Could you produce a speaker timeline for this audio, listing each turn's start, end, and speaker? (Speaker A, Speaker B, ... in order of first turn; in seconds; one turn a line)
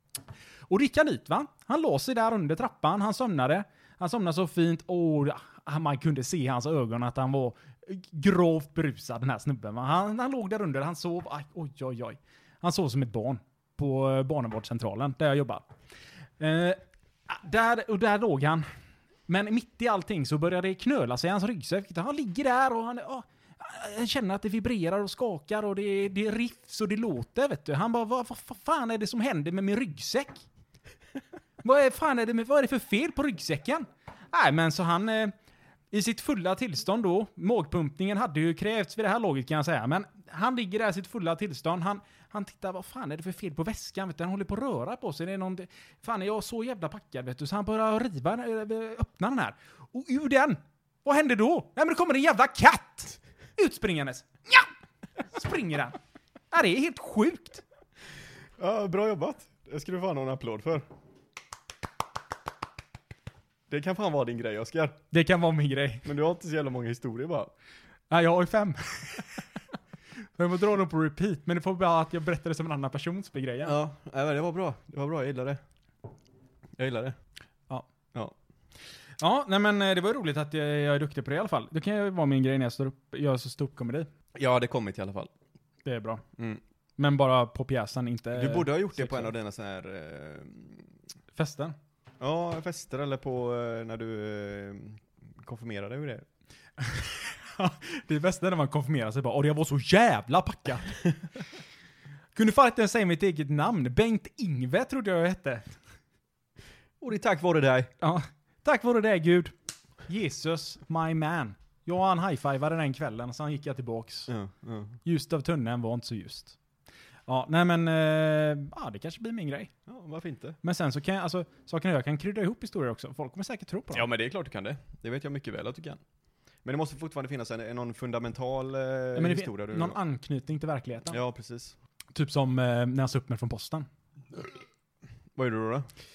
Speaker A: 0.7-15.6
Speaker A: 16.4-18.6
Speaker A: 19.3-30.4
Speaker A: 31.6-35.3
Speaker A: 35.9-54.7
Speaker A: 55.3-56.0
Speaker A: 56.5-57.6
Speaker B: 58.6-60.9
Speaker B: 63.7-65.0
Speaker A: 65.1-66.1
Speaker B: 66.0-67.5
Speaker A: 68.1-69.4
Speaker A: 70.3-73.8
Speaker B: 73.6-75.6
Speaker B: 76.8-77.2
Speaker A: 79.2-84.1
Speaker B: 84.3-85.3
Speaker A: 85.8-86.2
Speaker B: 86.4-86.6
Speaker A: 87.0-89.3
Speaker B: 88.3-90.9
Speaker A: 91.3-91.8
Speaker B: 92.2-96.2
Speaker A: 96.8-101.0
Speaker A: 102.3-105.8
Speaker B: 107.0-107.9
Speaker A: 108.0-109.5
Speaker A: 110.1-114.3
Speaker B: 114.3-115.0
Speaker A: 115.0-116.6
Speaker A: 117.3-119.7
Speaker B: 119.9-120.6
Speaker A: 120.6-124.1
Speaker B: 123.9-126.0
Speaker B: 126.6-130.0
Speaker A: 129.1-131.2
Speaker B: 131.1-131.8
Speaker A: 132.1-133.9
Speaker B: 135.3-135.9